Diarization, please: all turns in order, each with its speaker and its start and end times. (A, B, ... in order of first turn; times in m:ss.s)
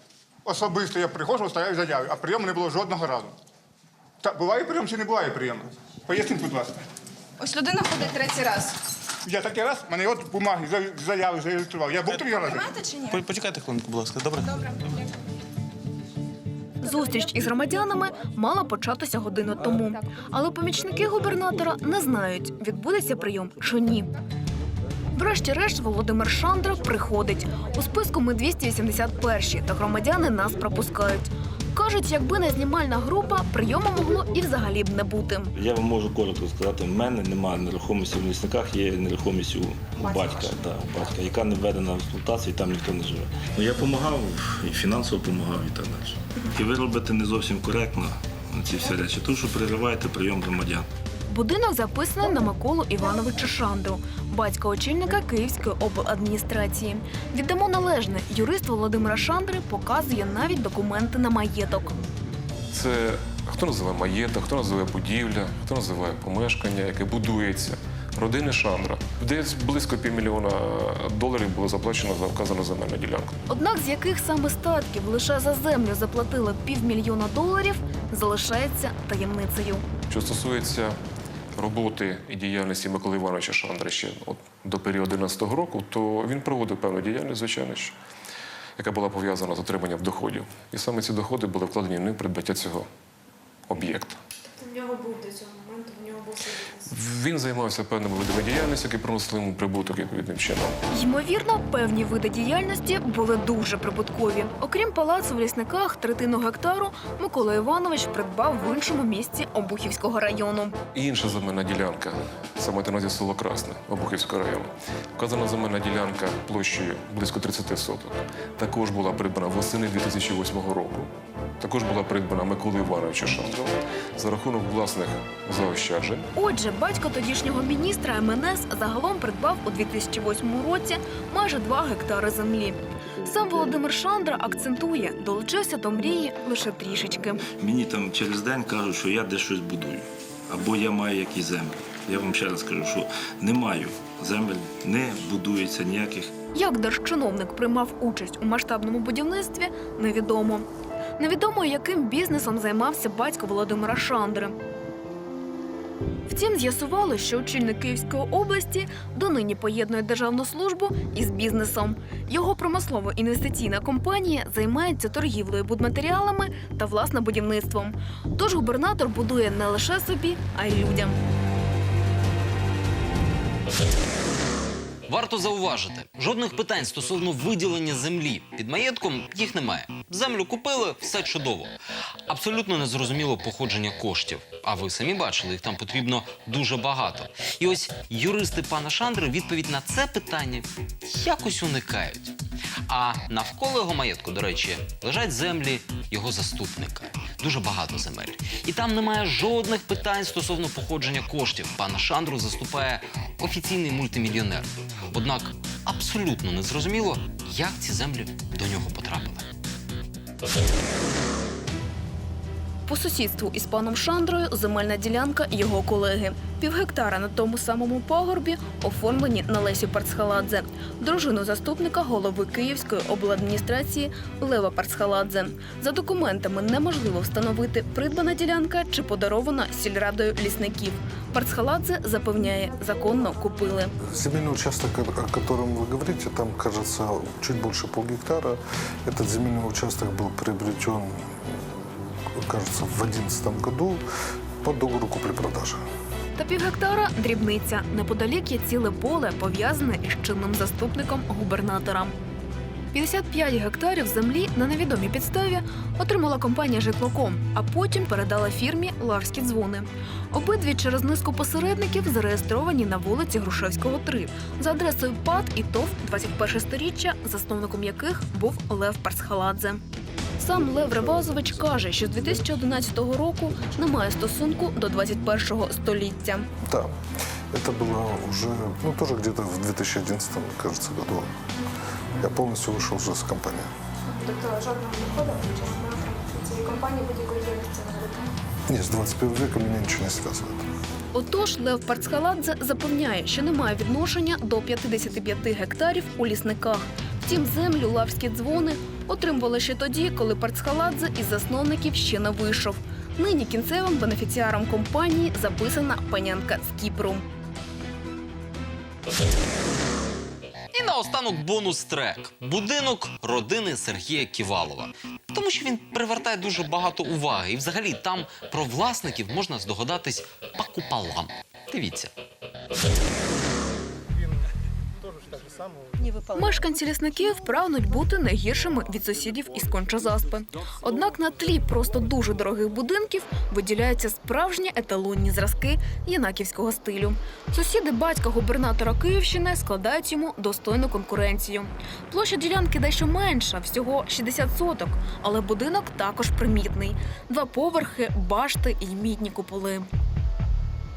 0:00.5-0:03.3 A
0:04.2-0:06.8 A
0:07.4-0:08.8 B
0:09.3-0:12.8 A
0:12.4-0:13.1 B
0:13.1-0:15.1 C
0:16.8-0:24.1 D
0:25.1-0:35.6 D
0:35.6-0:50.9 E
0:51.3-1:02.0 D
1:02.7-1:13.3 F
1:13.5-1:19.9 D
1:20.1-1:21.0 F
1:21.6-1:28.0 F
1:28.8-1:32.9 F
1:33.7-1:34.2 F
1:34.6-1:36.8 B
1:36.9-1:40.8 F
1:40.9-1:50.8 D
1:51.0-2:06.3 F
2:06.4-2:17.4 D
2:17.6-2:26.3 E
2:26.5-2:30.6 D
2:31.2-2:34.6 D
2:36.3-2:51.2 D
2:55.1-3:01.8 G
3:02.3-3:12.3 G
3:12.9-3:29.5 G
3:32.9-3:53.9 D
3:54.1-4:01.5 H
4:02.4-4:04.0 H
4:04.6-4:05.8 H
4:06.4-4:12.1 D
4:12.9-4:29.8 D
4:30.4-4:36.5 D
4:36.6-4:36.9 H
4:37.5-4:41.3 H
4:42.2-4:43.7 H
4:44.1-4:48.3 B
4:48.7-4:50.6 H
4:51.1-5:07.2 D
5:10.7-5:22.1 G
5:26.3-5:49.9 D